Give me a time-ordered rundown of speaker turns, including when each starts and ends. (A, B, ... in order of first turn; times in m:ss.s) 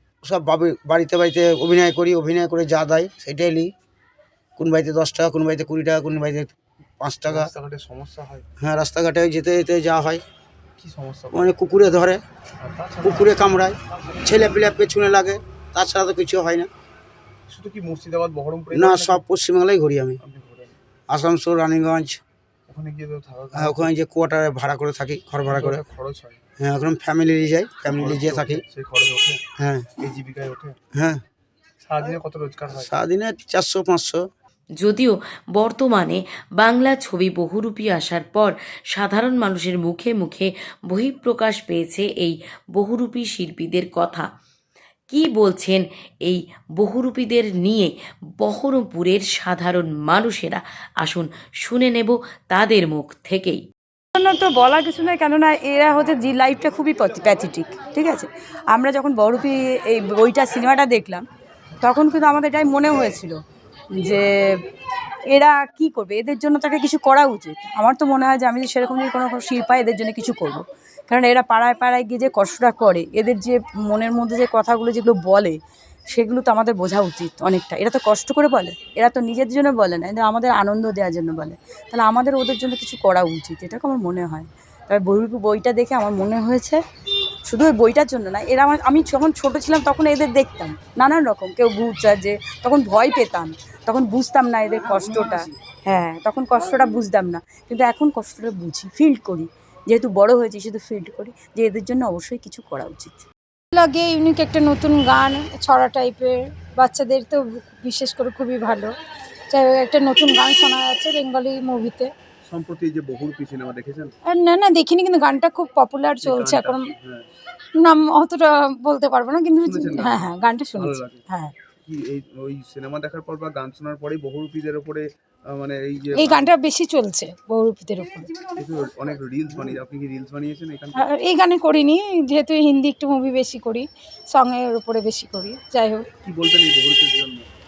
0:00.2-0:03.7 A
0:04.6-0:07.5 A
0:07.2-0:08.4 B
0:08.6-0:10.2 A
0:10.8-0:11.5 B
0:11.3-0:12.2 A
0:12.6-0:13.6 B
0:13.0-0:16.7 A
0:17.5-0:19.2 B
0:18.7-0:20.2 A
0:20.2-0:20.8 B
0:21.1-0:22.2 A
0:22.7-0:23.9 B
0:23.5-0:25.8 A
0:25.4-0:26.4 B
0:26.6-0:28.6 A
0:27.8-0:29.4 B
0:29.6-0:29.9 A
0:30.0-0:30.8 B
0:30.9-0:31.2 A
0:31.8-0:32.9 B
0:32.7-0:34.2 A
0:34.8-0:44.3 C
0:45.1-0:53.6 C
0:54.1-1:01.2 D
1:01.8-1:03.4 D
1:04.0-1:04.6 D
1:05.3-1:15.6 D
1:16.1-1:26.8 D
1:27.5-1:43.2 D
1:43.7-1:48.9 E
1:49.5-1:52.1 E
1:52.4-1:54.1 B
1:54.3-1:56.9 E
1:56.2-1:57.2 B
1:57.8-2:01.5 E
1:59.6-2:01.2 B
2:01.8-2:06.5 B
2:06.1-2:08.5 E
2:08.6-2:11.1 B
2:10.9-2:16.0 E
2:16.2-2:17.5 B